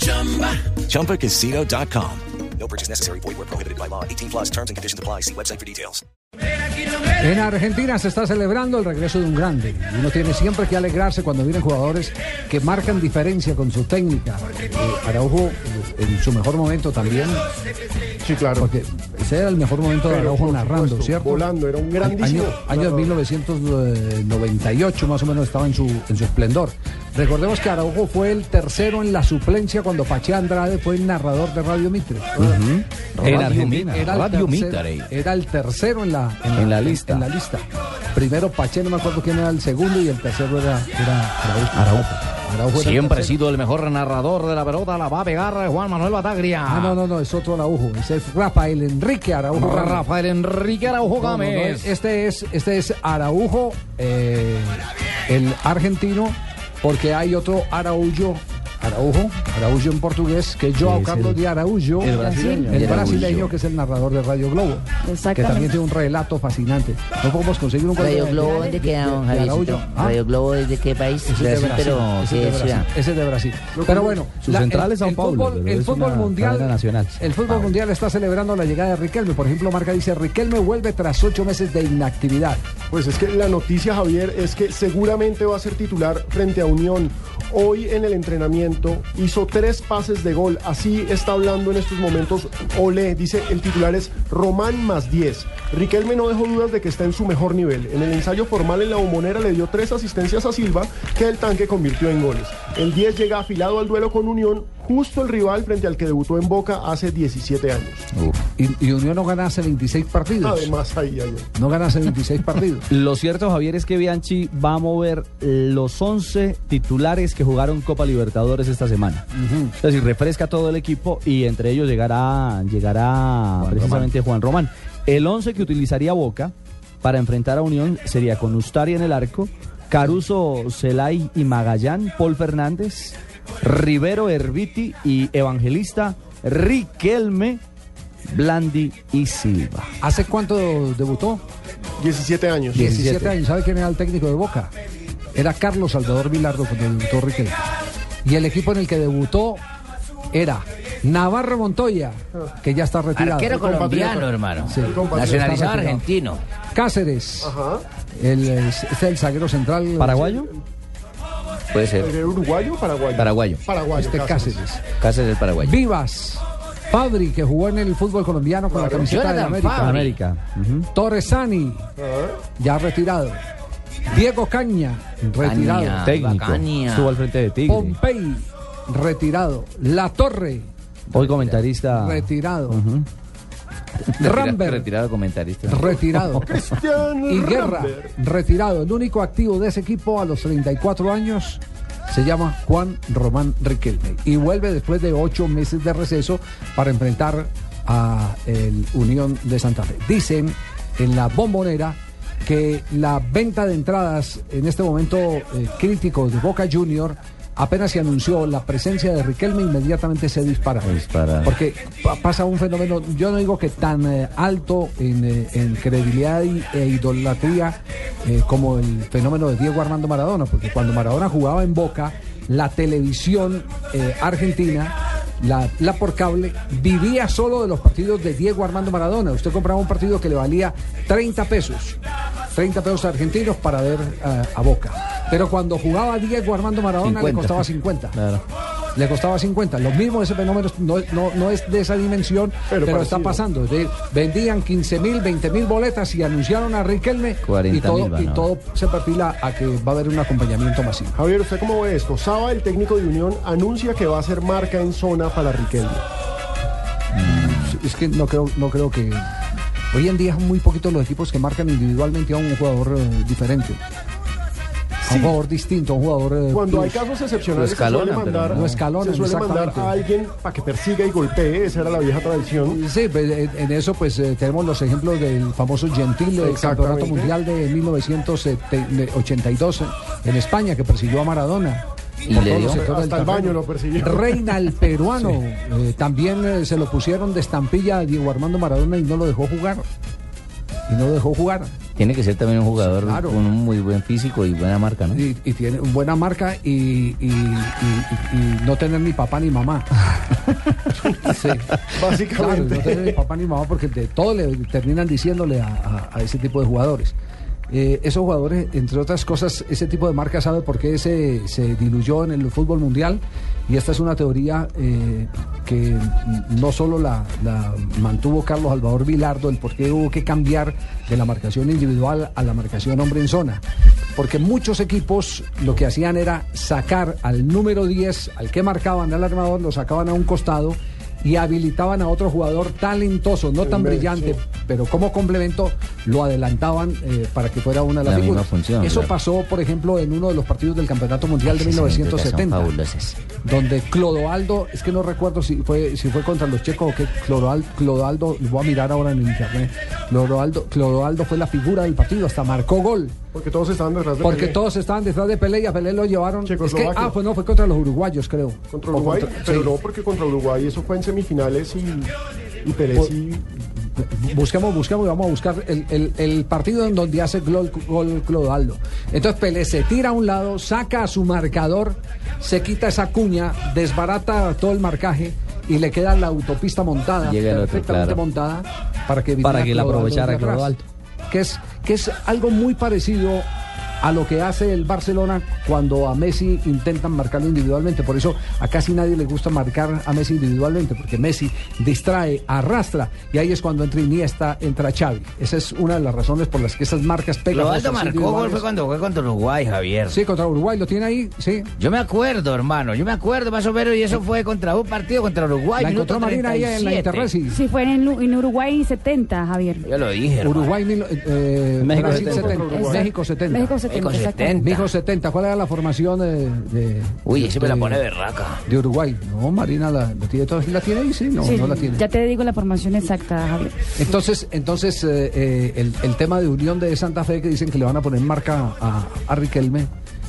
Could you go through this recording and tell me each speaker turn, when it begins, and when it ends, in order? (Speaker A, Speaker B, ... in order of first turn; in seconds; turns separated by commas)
Speaker A: 1.0-1.3, Speaker B: 2.1-6.0, Speaker C: 7.2-17.4, Speaker D: 18.2-18.7, Speaker C: 18.6-21.4, Speaker D: 20.1-23.1, Speaker C: 22.0-32.5, Speaker E: 32.4-34.1, Speaker C: 33.3-43.3, Speaker F: 34.2-35.1, Speaker E: 36.6-37.2, Speaker F: 42.8-43.8, Speaker A: 43.6-46.4, Speaker F: 44.5-46.9, Speaker C: 46.6-50.1, Speaker F: 49.6-51.8, Speaker A: 50.2-50.8, Speaker C: 51.2-70.2, Speaker E: 60.8-61.4, Speaker E: 62.0-63.5, Speaker G: 62.1-63.3, Speaker G: 65.0-65.7, Speaker A: 68.0-72.8, Speaker G: 68.2-68.8, Speaker C: 71.2-82.6, Speaker D: 73.7-74.2, Speaker E: 74.4-77.4, Speaker D: 82.9-108.1, Speaker C: 108.6-110.7, Speaker D: 110.4-111.5, Speaker C: 111.5-112.9, Speaker E: 112.9-119.2, Speaker C: 119.3-119.7, Speaker E: 119.8-137.6, Speaker F: 123.6-124.0, Speaker E: 138.3-139.9, Speaker C: 140.0-141.4, Speaker D: 142.0-142.8, Speaker E: 142.7-143.3, Speaker C: 142.8-144.7, Speaker C: 145.3-147.6, Speaker C: 148.2-149.6, Speaker C: 150.3-153.9, Speaker A: 153.5-154.7, Speaker D: 153.5-155.6, Speaker C: 154.6-156.1, Speaker A: 155.2-156.4, Speaker C: 156.7-157.5, Speaker D: 157.4-157.8, Speaker C: 158.2-160.2, Speaker E: 160.0-160.5, Speaker D: 160.2-160.6, Speaker A: 161.7-162.1, Speaker D: 161.9-164.6, Speaker A: 163.2-163.6, Speaker C: 163.9-164.8, Speaker A: 165.0-165.6, Speaker C: 165.6-169.9, Speaker D: 168.7-169.2, Speaker A: 169.1-170.0, Speaker E: 169.6-170.9, Speaker C: 170.9-171.9, Speaker D: 172.0-172.4, Speaker C: 172.6-173.4, Speaker C: 174.1-176.0, Speaker A: 175.5-176.0, Speaker F: 175.9-177.0, Speaker E: 176.0-178.0, Speaker C: 177.7-180.7, Speaker E: 181.1-183.1, Speaker A: 181.2-181.5, Speaker C: 181.9-182.8, Speaker A: 184.1-185.7, Speaker C: 184.1-184.9, Speaker C: 185.7-186.6, Speaker D: 185.9-188.1, Speaker C: 187.3-232.0, Speaker A: 210.9-211.3, Speaker C: 232.5-238.2, Speaker A: 237.2-237.6, Speaker C: 238.9-251.2, Speaker D: 242.7-243.4, Speaker A: 247.5-248.4, Speaker D: 251.1-256.0, Speaker C: 257.2-259.3, Speaker A: 257.4-257.6, Speaker C: 259.9-263.8, Speaker C: 265.0-267.0, Speaker D: 265.1-265.3, Speaker D: 266.5-272.8, Speaker A: 267.8-268.8, Speaker C: 268.5-270.0, Speaker C: 272.7-289.8, Speaker D: 276.4-277.3, Speaker A: 282.3-282.8, Speaker D: 282.7-284.5, Speaker C: 290.9-291.8, Speaker A: 292.0-295.2, Speaker C: 292.8-293.4, Speaker C: 295.1-299.9, Speaker C: 301.2-307.1, Speaker D: 301.9-303.2, Speaker C: 307.7-323.6, Speaker C: 324.1-342.8, Speaker D: 333.6-334.4, Speaker A: 338.0-339.1, Speaker A: 341.5-343.1, Speaker C: 343.4-353.2, Speaker D: 353.3-354.6, Speaker C: 354.2-359.7, Speaker D: 356.4-357.1, Speaker D: 358.7-363.4, Speaker C: 363.9-380.8, Speaker A: 377.3-378.1, Speaker E: 379.4-380.8, Speaker C: 381.3-383.5, Speaker C: 384.0-398.6, Speaker A: 397.6-400.1, Speaker C: 400.1-401.7, Speaker A: 402.0-407.2, Speaker C: 405.7-407.6, Speaker G: 407.5-409.9, Speaker C: 410.4-413.8, Speaker E: 411.8-412.6, Speaker D: 411.9-413.1, Speaker G: 412.7-414.7, Speaker A: 413.9-414.5, Speaker C: 414.6-418.1, Speaker A: 417.6-418.6, Speaker C: 418.6-422.0, Speaker G: 421.4-423.9, Speaker C: 423.9-429.9